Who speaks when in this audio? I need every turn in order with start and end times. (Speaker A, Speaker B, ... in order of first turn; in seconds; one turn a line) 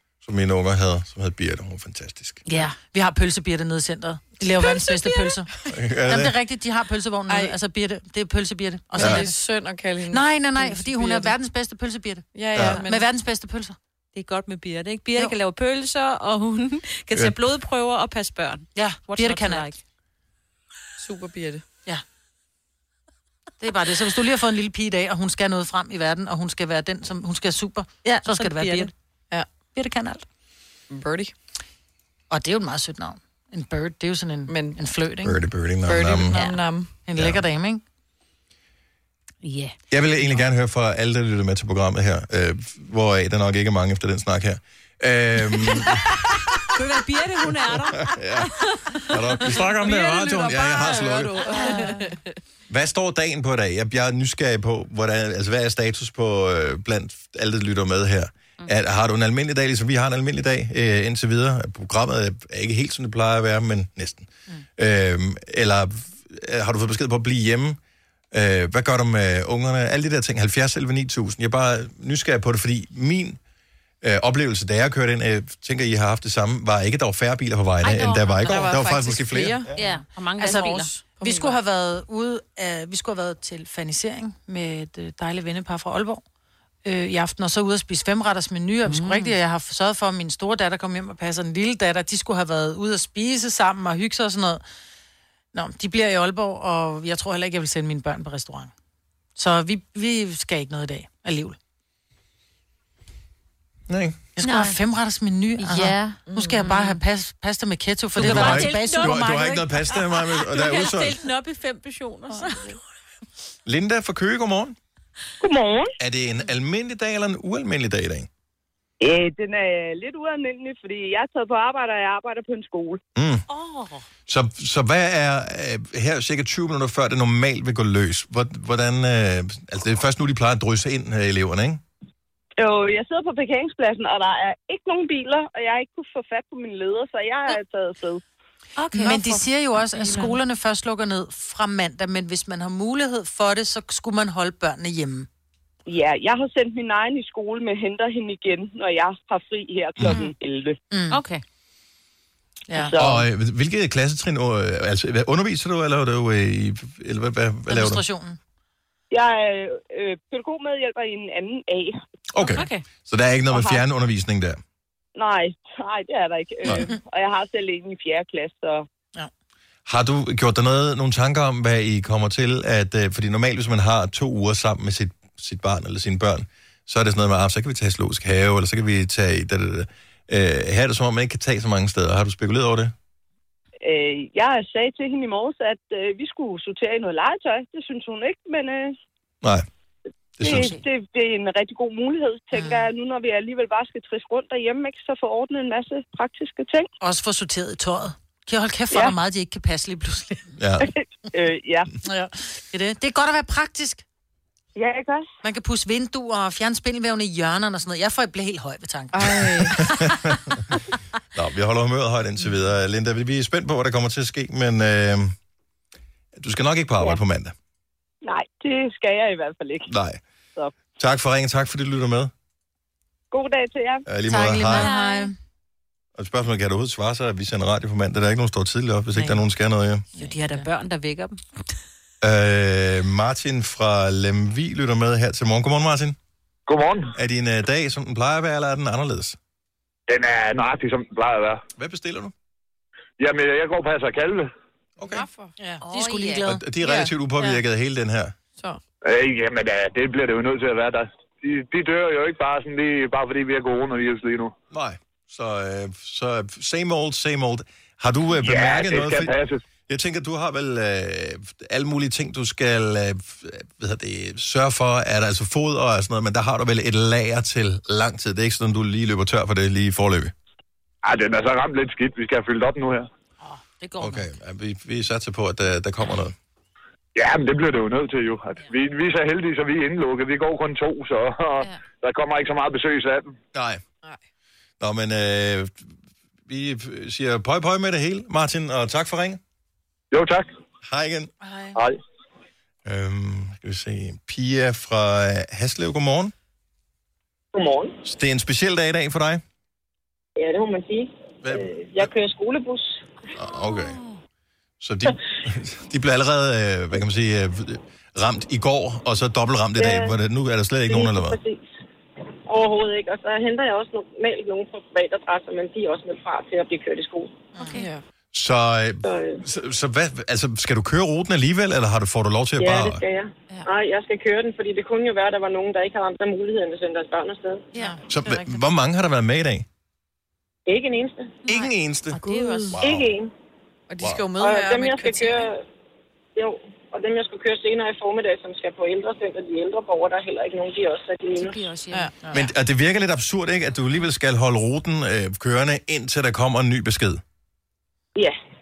Speaker A: 0.2-2.4
Speaker B: 2.5-5.5
Speaker C: 4.6-5.1
Speaker A: 5.7-6.3
Speaker B: 6.1-9.4
Speaker D: 7.3-7.5
Speaker D: 8.9-11.3
Speaker A: 9.0-9.2
Speaker B: 10.1-13.8
Speaker D: 12.3-13.1
Speaker A: 12.5-12.8
Speaker C: 14.2-19.8
Speaker B: 18.8-19.7
Speaker D: 21.0-21.6
Speaker B: 23.6-28.9
Speaker C: 28.1-28.9
Speaker D: 28.5-29.5
Speaker B: 29.7-30.2
Speaker D: 30.9-31.3
Speaker B: 32.3-35.4
Speaker D: 34.5-34.8
Speaker A: 35.2-36.6
Speaker D: 35.9-36.9
Speaker B: 37.0-37.8
Speaker C: 39.4-39.8
Speaker A: 39.9-46.2
Speaker C: 46.7-49.7
Speaker A: 48.0-51.4
Speaker D: 49.6-52.2
Speaker C: 51.5-52.0
Speaker A: 52.7-67.8
Speaker A: 68.3-73.4
Speaker A: 74.0-79.7
Speaker C: 77.8-78.6
Speaker D: 78.5-79.7
Speaker C: 79.8-81.0
Speaker B: 79.8-86.2
Speaker D: 80.5-81.6
Speaker B: 86.8-94.6
Speaker C: 88.9-89.3
Speaker B: 95.5-98.7
Speaker B: 99.4-101.6
Speaker A: 103.9-104.2
Speaker B: 104.4-109.3
Speaker C: 104.4-104.8
Speaker C: 105.6-107.0
Speaker D: 106.3-106.7
Speaker A: 108.2-111.2
Speaker C: 108.2-112.8
Speaker D: 112.4-112.8
Speaker A: 113.7-114.8
Speaker E: 115.4-115.9
Speaker A: 116.0-118.3
Speaker E: 119.0-123.0
Speaker A: 123.2-123.5
Speaker C: 123.5-124.1
Speaker A: 124.3-131.8
Speaker E: 132.6-138.2
Speaker C: 138.8-140.4
Speaker B: 138.9-145.3
Speaker E: 145.9-150.8
Speaker B: 150.9-151.2
Speaker C: 151.1-151.4
Speaker B: 152.7-153.0
Speaker E: 152.8-153.2
Speaker A: 153.0-158.0
Speaker B: 157.7-158.4
Speaker E: 159.1-162.0
Speaker A: 162.3-164.6
Speaker C: 162.4-162.8
Speaker E: 163.5-163.8
Speaker E: 165.2-168.9
Speaker A: 169.9-182.9
Speaker E: 183.8-188.9
Speaker A: 190.4-190.8
Speaker E: 190.4-196.9
Speaker B: 197.0-200.5
Speaker A: 200.6-200.9
Speaker E: 200.9-201.9
Speaker B: 202.0-204.0
Speaker E: 204.8-205.3
Speaker B: 205.4-210.0
Speaker D: 209.1-209.8
Speaker A: 209.7-210.6
Speaker A: 211.3-215.3
Speaker A: 216.3-217.5
Speaker E: 218.2-219.9
Speaker A: 219.9-220.2
Speaker A: 221.0-222.3
Speaker E: 223.3-224.1
Speaker A: 224.1-224.9
Speaker B: 224.3-225.3
Speaker C: 224.7-225.3
Speaker A: 226.2-230.1
Speaker C: 230.1-231.4
Speaker B: 230.2-230.7
Speaker A: 232.2-236.2
Speaker F: 236.7-237.1
Speaker A: 237.2-239.4
Speaker F: 240.1-241.6
Speaker A: 241.8-242.3
Speaker F: 243.2-244.5
Speaker A: 245.0-245.3
Speaker D: 245.1-245.5
Speaker B: 245.6-247.1
Speaker C: 245.8-246.5
Speaker A: 246.4-248.3
Speaker F: 249.0-254.5
Speaker A: 254.7-259.4
Speaker F: 258.4-259.6
Speaker A: 259.9-270.3
Speaker F: 271.0-273.1
Speaker C: 273.4-274.3
Speaker A: 274.0-276.4
Speaker F: 277.1-283.3
Speaker A: 283.5-283.8
Speaker A: 284.8-285.9
Speaker A: 286.5-289.4
Speaker F: 290.1-290.5
Speaker A: 290.8-291.3
Speaker B: 291.4-291.8
Speaker A: 292.9-296.3
Speaker G: 297.6-297.9
Speaker A: 298.0-299.4
Speaker G: 300.4-302.9
Speaker A: 301.4-302.1
Speaker A: 303.4-304.0
Speaker A: 304.8-311.4
Speaker G: 309.8-310.1
Speaker G: 310.9-311.6
Speaker G: 312.5-317.3
Speaker C: 317.6-317.9
Speaker D: 317.7-318.0
Speaker A: 318.3-323.0
Speaker G: 319.1-319.4
Speaker G: 322.6-327.6
Speaker C: 327.7-328.0
Speaker A: 328.1-329.7
Speaker G: 330.7-331.3
Speaker A: 331.5-333.1
Speaker C: 331.5-332.8
Speaker G: 332.8-333.3
Speaker D: 333.9-335.5
Speaker A: 334.0-334.2
Speaker G: 334.4-335.6
Speaker G: 336.4-341.6
Speaker C: 341.3-342.1
Speaker A: 342.3-347.2